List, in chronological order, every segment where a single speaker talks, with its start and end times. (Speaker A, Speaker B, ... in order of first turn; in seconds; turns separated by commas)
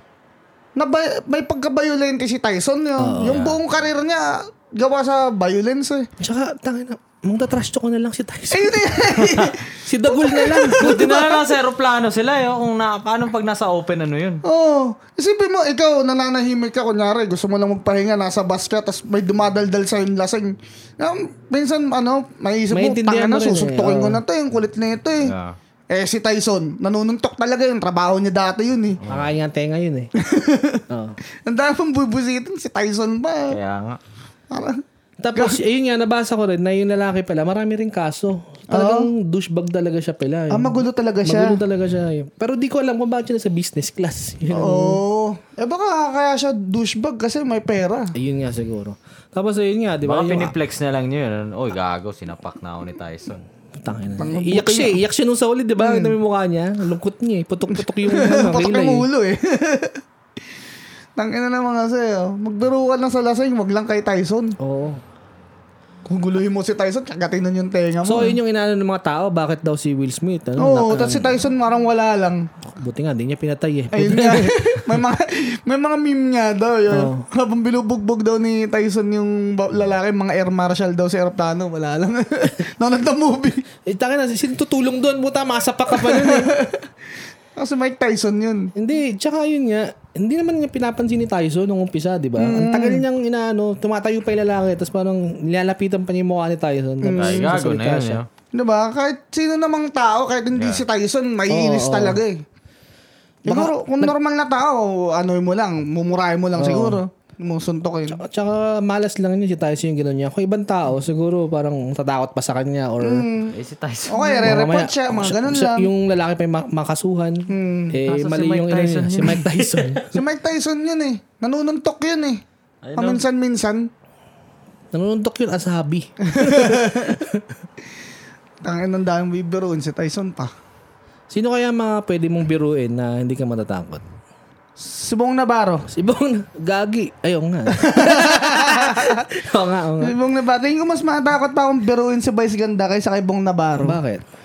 Speaker A: 0.8-6.1, Speaker B: 3.0-3.5, Speaker C: 3.2-3.6, Speaker B: 6.2-11.2, Speaker A: 8.5-11.4, Speaker C: 10.7-14.4, Speaker A: 14.4-25.3, Speaker B: 22.7-24.2, Speaker C: 25.2-25.6, Speaker A: 25.9-29.0, Speaker C: 29.0-29.3, Speaker B: 29.1-30.1, Speaker A: 30.2-30.8, Speaker B: 30.9-31.2, Speaker A: 31.4-33.5, Speaker C: 33.5-34.0, Speaker A: 34.5-34.8, Speaker B: 35.2-45.0, Speaker A: 35.3-35.6, Speaker A: 38.7-39.1, Speaker A: 40.5-41.6, Speaker A: 44.5-48.1, Speaker B: 48.1-50.5, Speaker C: 50.0-53.4, Speaker B: 53.8-59.0, Speaker A: 54.2-55.0, Speaker A: 55.8-56.1, Speaker A: 57.7-60.0, Speaker A: 61.2-64.5, Speaker B: 64.6-65.0, Speaker A: 66.0-68.4, Speaker B: 68.0-71.4, Speaker A: 70.6-72.5, Speaker B: 72.7-75.0, Speaker A: 73.9-83.6, Speaker B: 76.9-77.2, Speaker B: 83.8-86.5, Speaker A: 85.9-86.8, Speaker A: 87.6-88.7, Speaker B: 88.7-98.2, Speaker A: 92.4-93.0, Speaker A: 97.0-97.5, Speaker C: 97.2-98.3, Speaker A: 98.5-102.4, Speaker C: 100.5-100.8, Speaker B: 101.5-102.2, Speaker B: 103.5-104.1, Speaker A: 103.5-108.2, Speaker B: 106.5-107.0, Speaker B: 108.1-113.3, Speaker A: 113.0-113.5, Speaker C: 113.5-114.5, Speaker A: 114.1-115.9, Speaker B: 114.4-120.0, Speaker A: 117.5-118.0, Speaker C: 118.0-120.0, Speaker A: 120.1-122.4, Speaker C: 122.8-123.2, Speaker A: 123.0-123.9, Speaker B: 124.9-127.6, Speaker A: 126.2-127.2, Speaker A: 128.6-130.5, Speaker B: 131.3-134.0, Speaker A: 134.8-135.9, Speaker B: 135.9-140.2, Speaker A: 137.7-139.3, Speaker A: 140.0-144.0, Speaker B: 143.8-144.2